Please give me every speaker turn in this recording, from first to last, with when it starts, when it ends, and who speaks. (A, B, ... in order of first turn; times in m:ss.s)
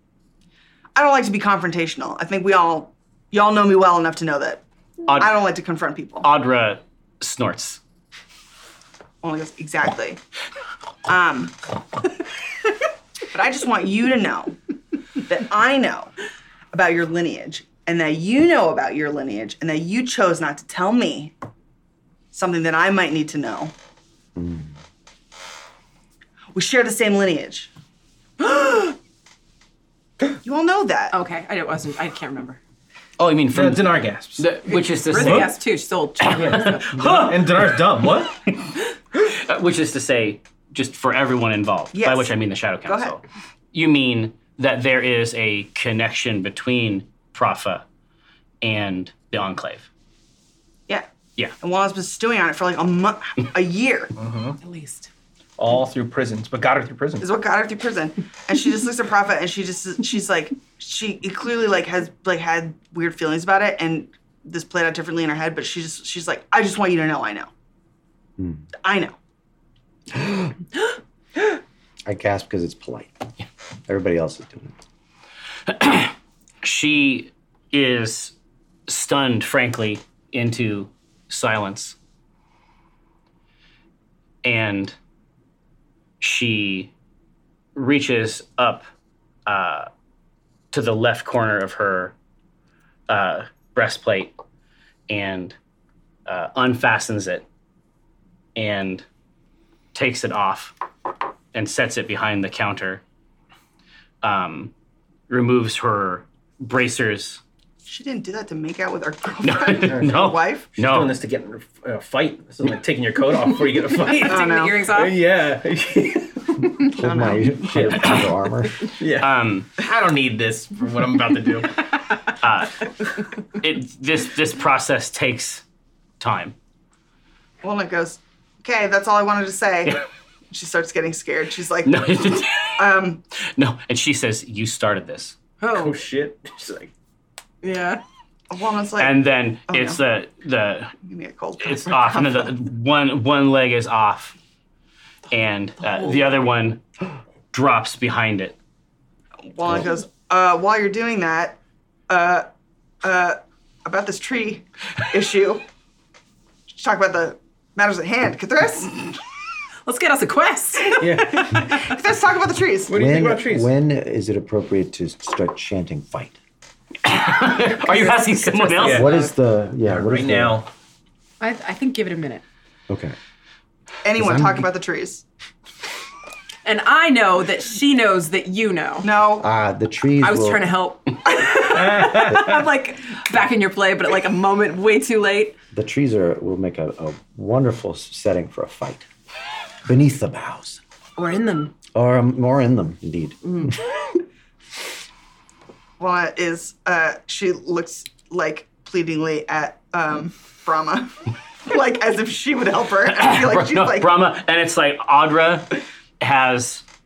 0:01.0-0:06.3 A
0:05.1-0:05.4 B
0:06.2-0:07.8 B
0:09.2-0:10.2 A
0:11.1-0:11.6 A
0:13.3-0:14.6 A
0:15.2-0:16.1 A
0:16.7-0:21.3 A
0:22.3-0:23.7 A
0:24.4-0:24.7 C
0:26.5-0:27.7 A
0:30.4-0:31.2 A
0:31.1-0:32.6 D
0:33.2-0:35.5 B
0:33.5-0:34.6 E
0:34.7-0:37.1 D
0:35.1-0:35.5 E
0:36.2-0:37.8 B
0:36.4-0:38.3 E
0:39.2-0:43.2 B
0:41.9-0:42.3 A
0:42.9-0:43.2 A
0:43.7-0:47.8 B
0:48.6-0:49.9 B
0:51.6-0:54.1 A
0:54.2-0:54.6 E
0:54.6-0:55.1 D
0:55.6-0:57.3 E
0:57.2-1:07.5 A
1:08.4-1:08.7 C
1:08.8-1:09.2 A
1:10.2-1:10.5 C
1:12.1-1:13.3 C
1:13.9-1:14.8 C
1:15.7-1:18.3 B
1:18.9-1:22.0 B
1:24.4-1:25.0 B
1:26.2-1:26.9 B
1:27.8-1:28.9 B
1:29.5-1:29.9 B
1:30.7-1:32.2 B
1:33.1-1:34.3 B
1:35.1-1:35.6 B
1:36.3-1:37.5 B
1:38.6-1:39.0 B
1:39.9-1:40.7 B
1:41.5-1:43.0 B
1:44.2-1:44.7 B
1:45.3-1:47.4 B
1:47.9-1:50.8 A
1:49.4-1:51.1 B
1:49.9-1:50.2 E
1:50.8-1:56.7 E
1:54.0-1:55.2 D
1:54.3-1:54.8 A
1:56.9-1:58.9 C
1:57.0-1:57.6 A
1:57.6-1:58.2 E
1:58.9-2:01.8 E
1:59.2-1:59.7 B
2:02.4-2:02.9 B
2:03.6-2:05.6 B
2:06.2-2:06.6 B
2:07.6-2:12.2 A
2:11.8-2:12.9 B
2:12.8-2:13.2 A
2:13.5-2:15.4 B
2:15.6-2:16.0 D
2:15.7-2:16.9 E
2:17.6-2:18.0 D
2:18.5-2:20.0 A
2:19.0-2:20.9 B
2:21.0-2:22.5 A
2:21.6-2:24.4 B
2:25.3-2:26.8 B
2:27.5-2:28.6 B
2:29.5-2:32.5 A
2:33.0-2:35.6 A
2:36.7-2:39.0 A
2:39.9-2:41.6 D
2:41.0-2:41.6 E
2:41.4-2:43.0 A
2:42.9-2:43.7 E
2:42.9-2:46.4 C
2:47.0-2:49.1 B
2:48.5-2:49.0 A
2:48.8-2:49.2 E
2:48.8-2:50.6 C
2:49.8-2:50.7 E
2:51.4-2:52.4 D
2:52.9-2:53.2 C
2:54.0-2:55.2 A
2:54.2-2:54.7 C
2:56.6-2:59.1 D
2:59.0-2:59.5 A
2:59.4-3:00.7 C
3:00.2-3:05.6 D
3:01.7-3:02.5 E
3:05.7-3:09.1 C
3:09.8-3:10.8 C
3:11.2-3:11.7 D
3:12.0-3:13.8 C
3:13.4-3:13.8 D
3:16.0-3:24.2 A
3:23.1-3:26.8 B